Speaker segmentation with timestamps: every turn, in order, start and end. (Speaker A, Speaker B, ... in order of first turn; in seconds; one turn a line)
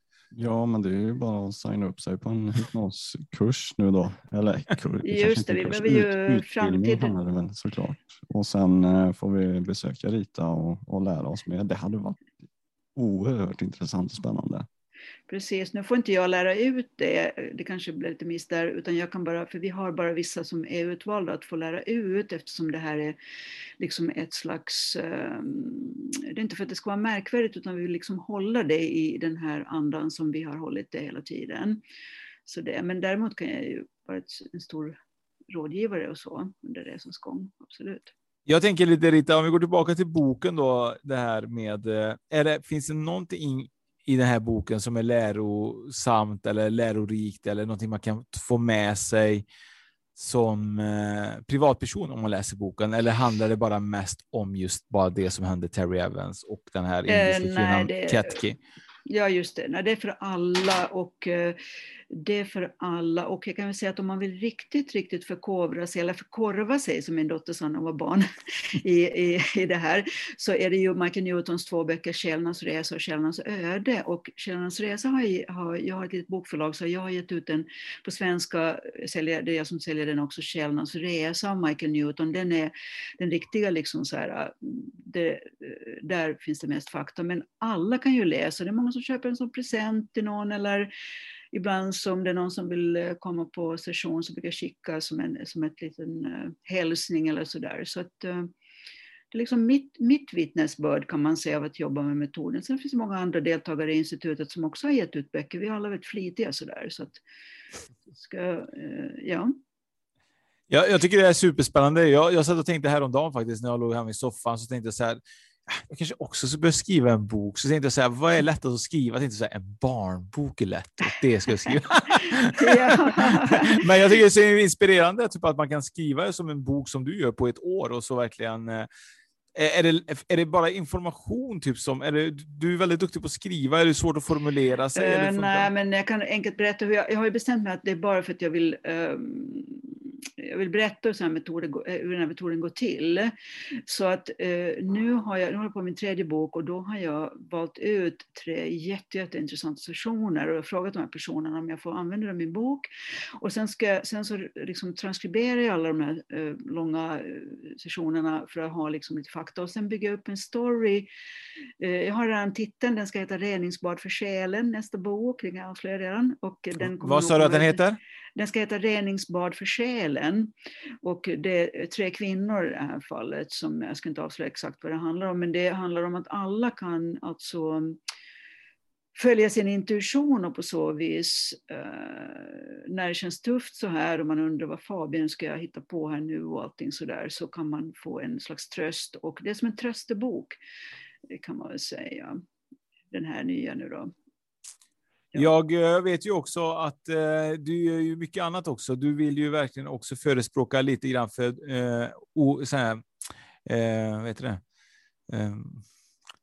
Speaker A: 0.3-12.4
Speaker B: 5.0-7.1
Speaker A: 13.0-14.7
Speaker B: 15.3-23.2
Speaker B: 23.8-31.8
Speaker B: 32.5-35.0
Speaker B: 35.5-38.1
Speaker C: 38.5-49.5
Speaker C: 50.2-58.6
Speaker B: 57.1-58.4
Speaker B: 59.1-61.6
Speaker B: 62.1-90.9
Speaker B: 91.5-98.5
Speaker B: 99.3-107.2
Speaker B: 108.2-109.5
Speaker C: 110.7-115.2
Speaker C: 115.8-128.9
Speaker B: 122.6-123.8
Speaker C: 129.6-135.7
Speaker B: 135.0-139.8
Speaker B: 140.4-143.3
Speaker B: 143.9-152.9
Speaker B: 153.4-161.1
Speaker B: 161.8-167.8
Speaker C: 166.8-168.0
Speaker B: 168.4-170.5
Speaker B: 171.0-178.0
Speaker B: 179.2-190.6
Speaker B: 191.3-192.4
Speaker B: 193.1-194.1
Speaker C: 195.3-203.0
Speaker C: 203.7-204.6
Speaker C: 205.3-205.8